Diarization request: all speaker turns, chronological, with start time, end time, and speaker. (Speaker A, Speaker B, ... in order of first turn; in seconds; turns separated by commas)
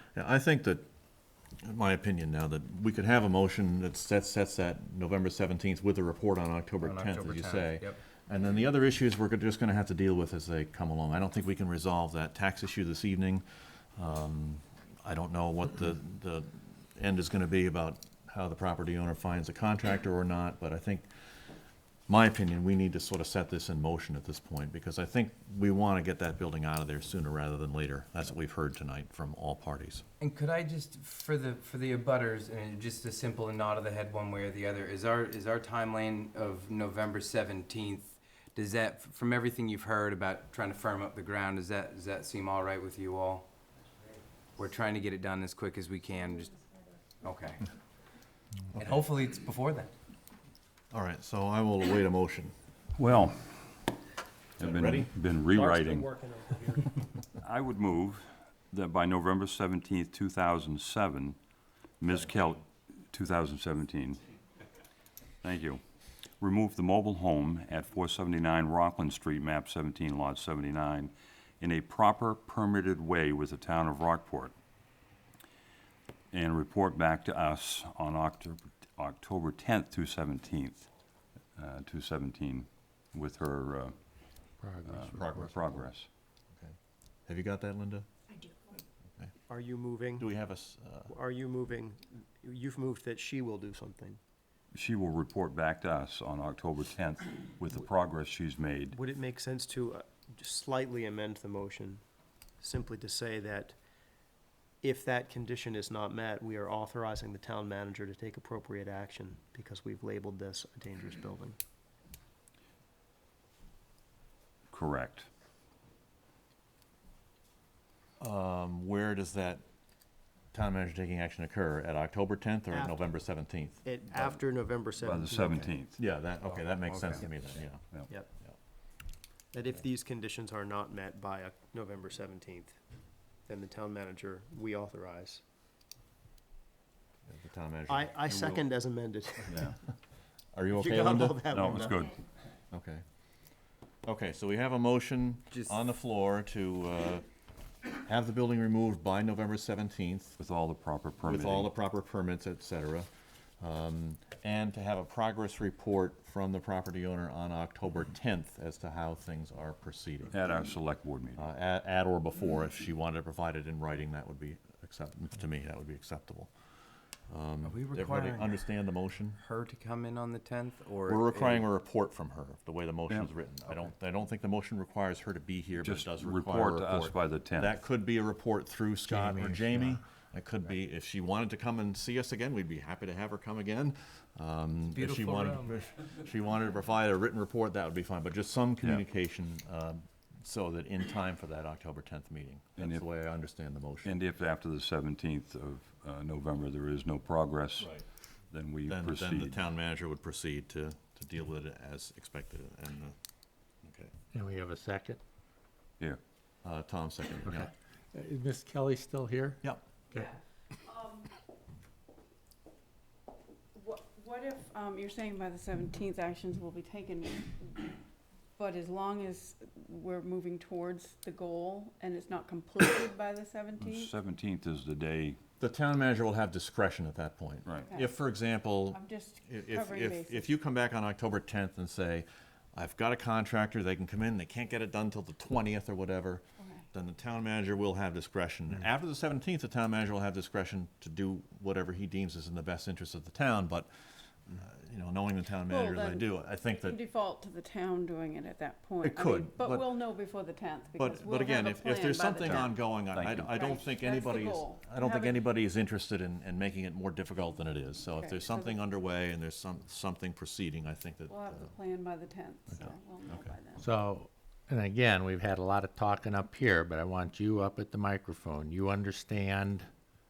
Speaker A: 0.2-0.8, Speaker A: 1.6-13.4, Speaker B: 6.8-8.0, Speaker A: 14.0-21.1, Speaker A: 22.1-30.0, Speaker B: 30.2-43.5, Speaker B: 44.5-46.6, Speaker B: 47.2-47.7, Speaker B: 48.8-49.9, Speaker A: 50.9-52.5, Speaker C: 53.0-53.8, Speaker C: 54.6-56.1, Speaker A: 54.6-55.1, Speaker D: 55.5-57.0, Speaker C: 57.4-61.4, Speaker C: 62.0-64.2, Speaker C: 65.4-65.8, Speaker C: 66.4-74.5, Speaker C: 76.3-80.9, Speaker C: 81.6-84.0, Speaker E: 84.6-85.2, Speaker C: 84.8-86.1, Speaker A: 85.1-85.9, Speaker A: 87.3-88.1, Speaker D: 89.5-90.3, Speaker A: 90.2-91.1, Speaker D: 91.1-94.2, Speaker C: 94.7-99.0, Speaker D: 98.9-102.0, Speaker D: 102.6-103.8, Speaker D: 104.8-111.6, Speaker C: 114.7-115.3, Speaker A: 118.2-119.6, Speaker A: 120.5-123.8, Speaker D: 122.7-123.0, Speaker D: 123.8-125.8, Speaker C: 125.0-126.0, Speaker A: 126.0-127.8, Speaker B: 126.4-127.3, Speaker D: 129.5-132.8, Speaker D: 133.5-135.4, Speaker A: 137.3-138.7, Speaker D: 137.9-139.8, Speaker C: 139.5-139.8, Speaker A: 140.5-141.5, Speaker D: 140.7-142.1, Speaker C: 141.5-142.2, Speaker A: 142.7-143.0, Speaker A: 144.1-147.2, Speaker B: 145.5-145.8, Speaker A: 148.0-150.4, Speaker C: 150.4-151.7, Speaker A: 151.2-153.1, Speaker A: 153.6-160.4, Speaker C: 160.3-161.4, Speaker A: 161.4-166.5, Speaker A: 167.3-169.4, Speaker B: 167.6-168.6, Speaker B: 169.3-171.7, Speaker A: 171.1-194.2, Speaker C: 175.8-177.8, Speaker E: 179.1-180.0, Speaker B: 184.9-185.8, Speaker C: 192.8-193.1, Speaker C: 194.0-197.9, Speaker C: 198.5-199.6, Speaker A: 198.9-203.2, Speaker A: 203.8-204.1, Speaker E: 204.3-205.2, Speaker A: 206.6-207.7, Speaker E: 207.5-209.6, Speaker F: 210.9-211.3, Speaker F: 213.8-217.9, Speaker F: 218.6-224.1, Speaker C: 223.8-225.4, Speaker A: 225.6-243.9, Speaker C: 227.7-227.9, Speaker F: 228.9-230.5, Speaker A: 244.5-247.0, Speaker F: 245.7-252.9, Speaker A: 249.0-250.0, Speaker A: 251.0-261.8, Speaker C: 252.4-253.7, Speaker F: 253.5-255.5, Speaker F: 258.2-258.8, Speaker F: 261.3-263.9, Speaker A: 262.7-263.6, Speaker E: 263.8-269.9